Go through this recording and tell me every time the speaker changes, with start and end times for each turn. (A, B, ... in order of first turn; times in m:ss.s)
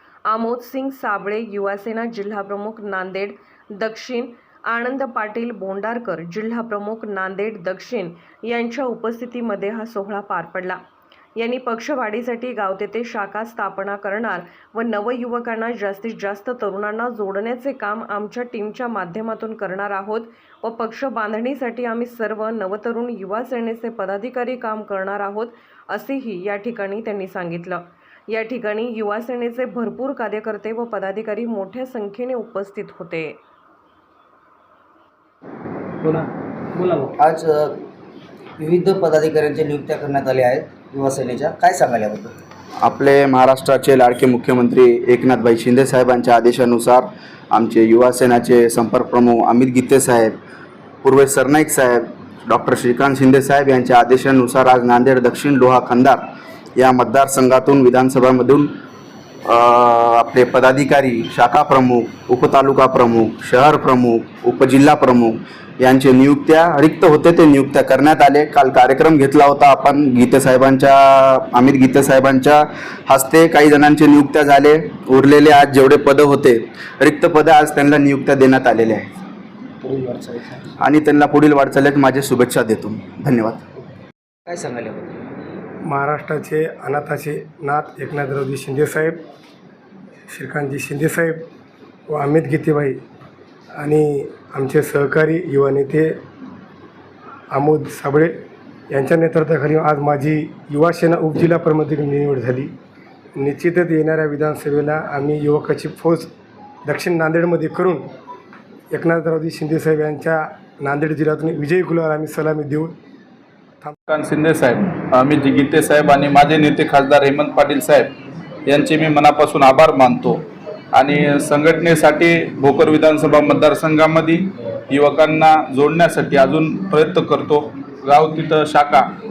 0:00.2-0:10.8 A
0:11.4-0:33.4 A
0:36.0-0:37.8 B
0:38.6-0:42.4 B
0:42.8-0:50.4 C
0:51.0-0:56.2 C
0:56.8-0:58.7 C
0:59.4-1:19.1 C
1:19.8-1:20.6 B
1:20.8-1:23.6 C
1:24.5-1:25.2 B
1:25.9-1:29.2 D
1:30.3-1:31.4 D
1:32.1-1:33.0 D
1:33.8-1:36.1 D
1:37.5-1:38.3 D
1:38.9-1:42.7 D
1:43.4-1:46.3 D
1:46.9-1:48.0 D
1:48.9-1:52.9 D
1:54.1-1:58.1 E
1:58.6-2:09.0 E